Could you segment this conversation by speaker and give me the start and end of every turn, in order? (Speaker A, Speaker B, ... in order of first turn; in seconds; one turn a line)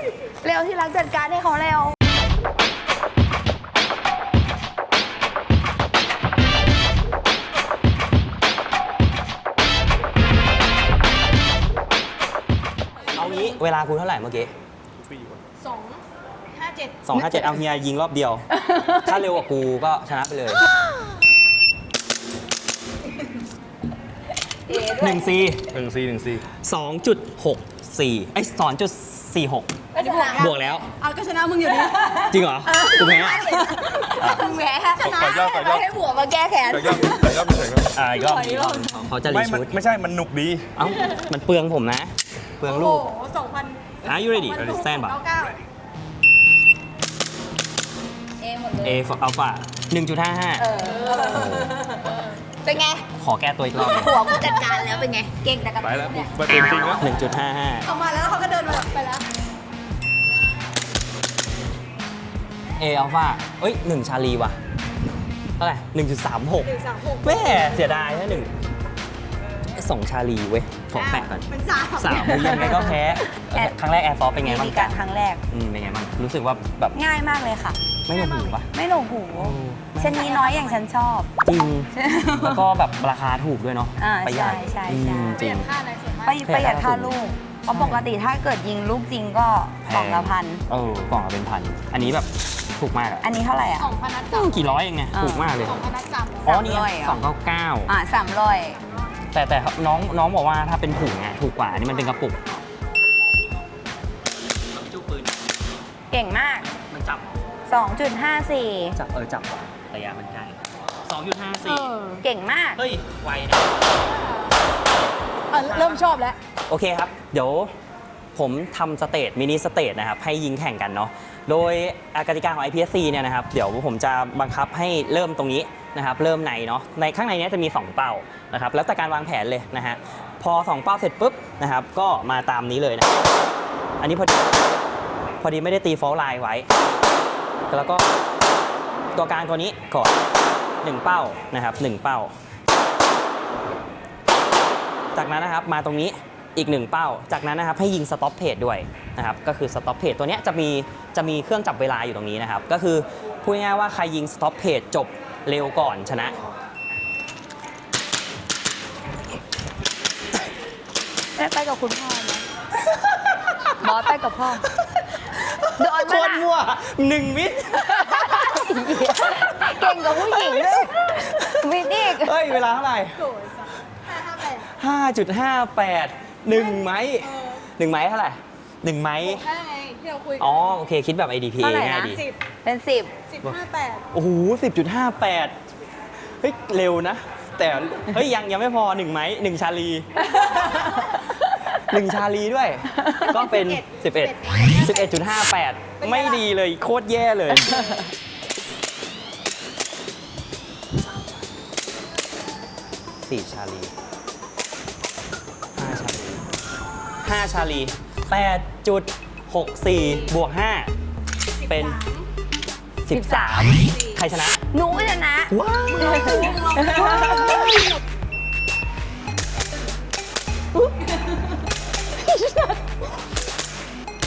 Speaker A: 0.4-2.0
Speaker B: 13.1-14.5
Speaker C: 15.1-15.4
Speaker D: 15.6-16.0
Speaker D: 16.5-17.0
Speaker B: 17.0-20.7
Speaker A: 24.7-25.3
Speaker B: 24.7-25.7
Speaker C: 25.7-26.5
Speaker B: 26.5-29.8
Speaker A: 29.9-30.6
Speaker D: 30.0-32.3
Speaker B: 30.4-30.9
Speaker B: 32.2-34.5
Speaker A: 32.4-37.6
Speaker D: 33.6-34.1
Speaker C: 35.0-35.9
Speaker C: 36.7-37.9
Speaker B: 37.9-39.7
Speaker A: 38.1-38.9
Speaker C: 39.2-40.7
Speaker B: 40.8-43.1
Speaker D: 42.6-45.6
Speaker B: 44.0-45.2
Speaker C: 44.5-44.9
Speaker A: 48.4-49.0
Speaker B: 48.8-50.7
Speaker A: 50.6-53.1
Speaker B: 51.2-51.8
Speaker B: 53.1-54.2
Speaker A: 53.8-57.0
Speaker C: 55.8-57.0
Speaker B: 57.0-57.9
Speaker D: 57.9-59.2
Speaker B: 62.8-64.6
Speaker B: 65.6-68.5
Speaker D: 66.6-68.2
Speaker B: 69.7-75.0
Speaker D: 70.9-72.9
Speaker A: 72.5-72.9
Speaker A: 74.4-75.4
Speaker B: 75.5-77.0
Speaker A: 76.9-77.8
Speaker B: 78.0-78.7
Speaker D: 78.1-78.5
Speaker A: 78.7-82.6
Speaker B: 79.3-80.4
Speaker D: 80.0-80.8
Speaker B: 81.4-85.7
Speaker A: 84.0-85.4
Speaker D: 84.5-86.4
Speaker A: 86.2-90.6
Speaker B: 86.5-87.2
Speaker B: 87.7-88.0
Speaker B: 89.8-93.3
Speaker A: 93.2-93.9
Speaker D: 93.8-94.8
Speaker B: 94.3-95.8
Speaker A: 95.1-95.6
Speaker D: 95.5-96.6
Speaker A: 96.5-97.2
Speaker B: 96.5-97.9
Speaker A: 97.9-98.8
Speaker B: 99.3-102.6
Speaker B: 104.8-105.3
Speaker A: 106.1-106.7
Speaker B: 106.6-107.4
Speaker A: 107.7-109.0
Speaker B: 109.0-112.0
Speaker D: 111.6-112.2
Speaker A: 112.2-112.8
Speaker B: 112.8-113.8
Speaker D: 114.1-114.5
Speaker D: 115.5-116.4
Speaker B: 115.5-116.1
Speaker B: 116.7-117.7
Speaker B: 118.3-133.1
Speaker B: 134.0-134.5
Speaker B: 135.4-136.7
Speaker B: 137.7-138.1
Speaker B: 139.1-140.2
Speaker B: 140.8-142.3
Speaker B: 145.1-156.4
Speaker A: 161.4-162.5
Speaker B: 162.8-164.1
Speaker A: 163.8-164.7
Speaker B: 164.8-168.7
Speaker A: 165.8-166.5
Speaker A: 167.8-172.4
Speaker B: 169.2-173.2
Speaker D: 173.2-174.7
Speaker B: 174.6-179.4
Speaker D: 177.2-177.6
Speaker D: 179.2-180.6
Speaker B: 180.4-182.2
Speaker A: 181.6-183.2
Speaker D: 182.0-182.4
Speaker D: 183.3-184.1
Speaker B: 184.1-185.6
Speaker B: 186.2-198.0
Speaker D: 193.2-195.1
Speaker D: 196.0-196.4
Speaker B: 203.2-203.9
Speaker B: 205.8-206.4
Speaker B: 207.2-210.9
Speaker D: 211.6-212.3
Speaker B: 211.6-212.0
Speaker B: 213.1-214.6
Speaker A: 213.1-213.7
Speaker D: 213.7-214.2
Speaker A: 214.7-217.8
Speaker B: 215.5-217.8
Speaker D: 216.0-218.0
Speaker D: 222.2-222.7